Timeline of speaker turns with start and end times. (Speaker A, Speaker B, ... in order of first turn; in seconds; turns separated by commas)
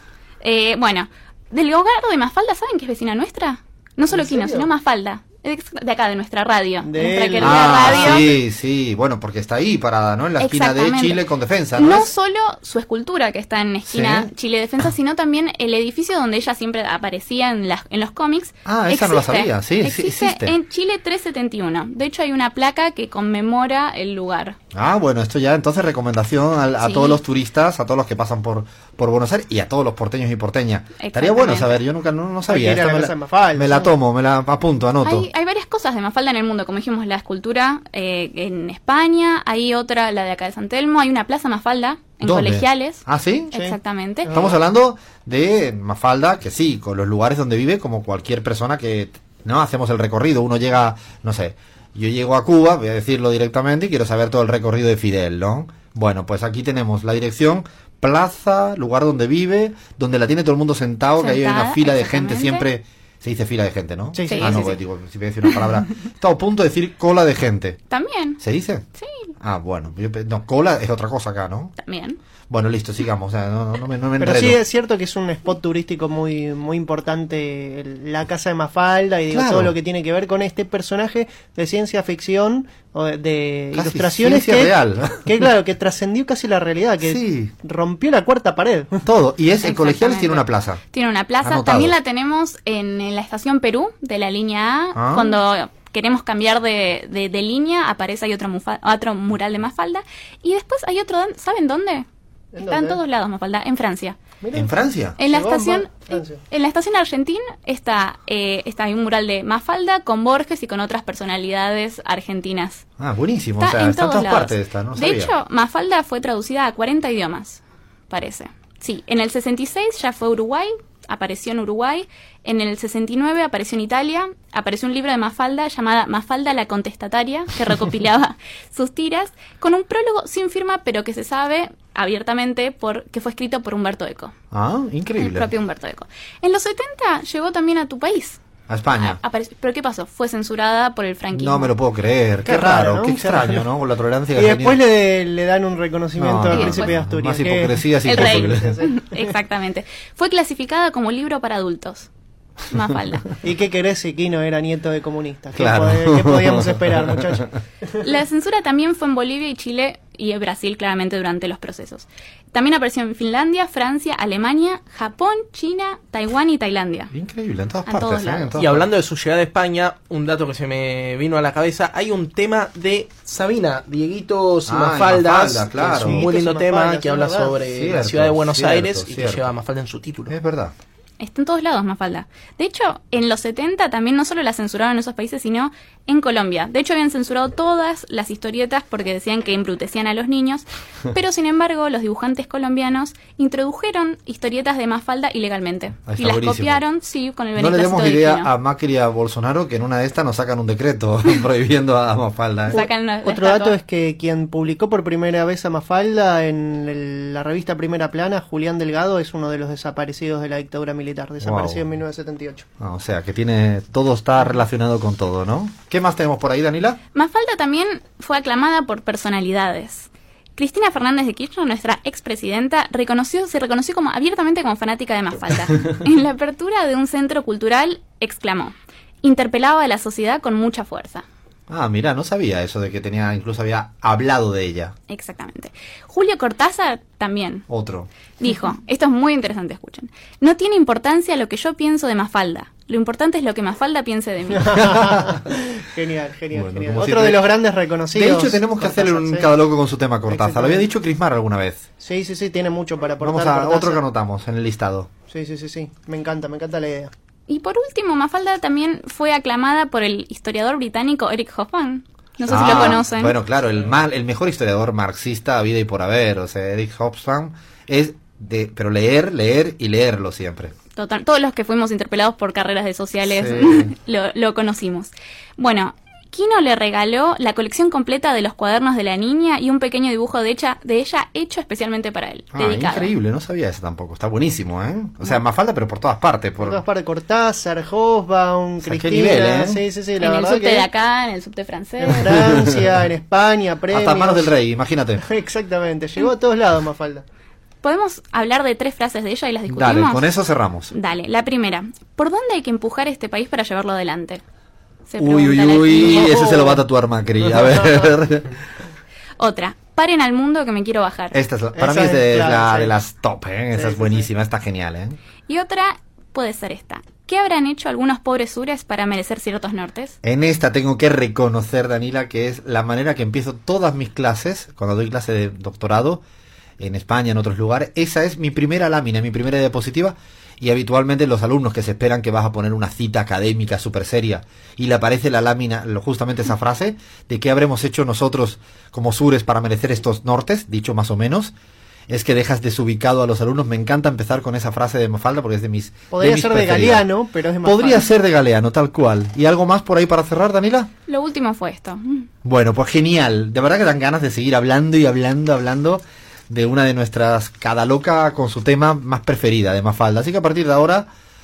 Speaker A: 0.4-8.3, Speaker B: 4.1-4.7, Speaker B: 6.8-8.4, Speaker C: 7.4-12.1, Speaker A: 10.4-11.2, Speaker A: 11.8-24.6, Speaker C: 13.9-14.3, Speaker C: 18.6-20.6, Speaker C: 24.7-35.3, Speaker A: 26.8-27.2, Speaker A: 31.0-31.8, Speaker B: 32.5-33.9, Speaker A: 35.0-44.3, Speaker C: 42.2-43.5, Speaker B: 43.5-44.6, Speaker C: 44.2-67.8, Speaker A: 61.2-62.7, Speaker B: 64.1-64.7, Speaker A: 64.3-64.8, Speaker A: 67.9-68.4, Speaker C: 68.4-68.8, Speaker A: 69.0-69.3, Speaker C: 69.4-71.7, Speaker A: 71.8-72.2, Speaker C: 72.5-74.6, Speaker B: 74.2-89.0, Speaker C: 79.3-79.7, Speaker C: 83.8-85.2, Speaker C: 87.0-87.5, Speaker C: 89.0-90.8, Speaker A: 89.6-102.1, Speaker C: 91.4-92.0, Speaker C: 95.0-95.3, Speaker B: 102.5-103.0, Speaker A: 102.6-104.2, Speaker B: 104.4-104.7, Speaker C: 104.5-105.2, Speaker A: 105.2-112.8, Speaker B: 105.2-106.4, Speaker C: 113.0-115.3, Speaker A: 113.6-134.3, Speaker C: 134.5-135.5, Speaker A: 135.2-138.4, Speaker C: 138.7-139.2, Speaker A: 139.0-141.7, Speaker C: 141.3-144.8, Speaker B: 142.4-143.6, Speaker B: 144.3-149.1, Speaker C: 146.2-148.8, Speaker A: 146.5-146.9, Speaker A: 148.0-152.1, Speaker A: 152.7-153.3, Speaker B: 153.4-158.0, Speaker C: 155.6-157.4, Speaker A: 158.0-167.1, Speaker C: 167.1-168.8, Speaker A: 167.9-168.6, Speaker D: 168.6-180.3, Speaker C: 174.7-176.3, Speaker B: 175.9-177.6, Speaker C: 177.7-179.5, Speaker C: 180.3-180.8, Speaker A: 181.2-198.5, Speaker C: 196.1-196.8, Speaker C: 197.6-202.9, Speaker A: 202.7-203.8, Speaker B: 202.7-212.6, Speaker C: 211.4-211.8, Speaker C: 212.8-217.0, Speaker A: 217.1-231.2, Speaker C: 231.7-234.9, Speaker A: 235.1-237.6, Speaker C: 237.7-238.1, Speaker A: 238.4-244.9, Speaker C: 244.7-245.3, Speaker B: 245.0-249.5, Speaker C: 246.5-247.5, Speaker C: 248.1-251.8, Speaker B: 250.3-250.9, Speaker B: 252.0-254.0, Speaker C: 253.2-255.1, Speaker B: 255.3-257.1, Speaker A: 257.5-263.4, Speaker C: 262.4-270.7, Speaker B: 262.6-263.0, Speaker A: 270.9-283.1, Speaker C: 273.2-273.9, Speaker C: 282.5-286.8, Speaker B: 286.6-290.9, Speaker C: 288.8-289.8, Speaker A: 290.2-292.3, Speaker B: 292.0-294.5, Speaker C: 292.3-292.7, Speaker C: 293.9-295.2, Speaker B: 295.2-297.2, Speaker A: 297.8-300.3, Speaker C: 299.7-300.9, Speaker A: 300.9-304.4, Speaker A: 305.1-306.4, Speaker C: 305.2-308.5, Speaker B: 306.0-306.8, Speaker A: 309.4-311.4, Speaker C: 311.3-315.2, Speaker B: 311.8-312.9, Speaker B: 313.7-314.3, Speaker A: 315.5-320.1, Speaker C: 320.2-326.2, Speaker C: 326.8-341.5, Speaker C: 342.1-347.1, Speaker B: 346.1-348.1, Speaker C: 347.6-350.9, Speaker A: 351.1-352.3, Speaker C: 352.4-361.1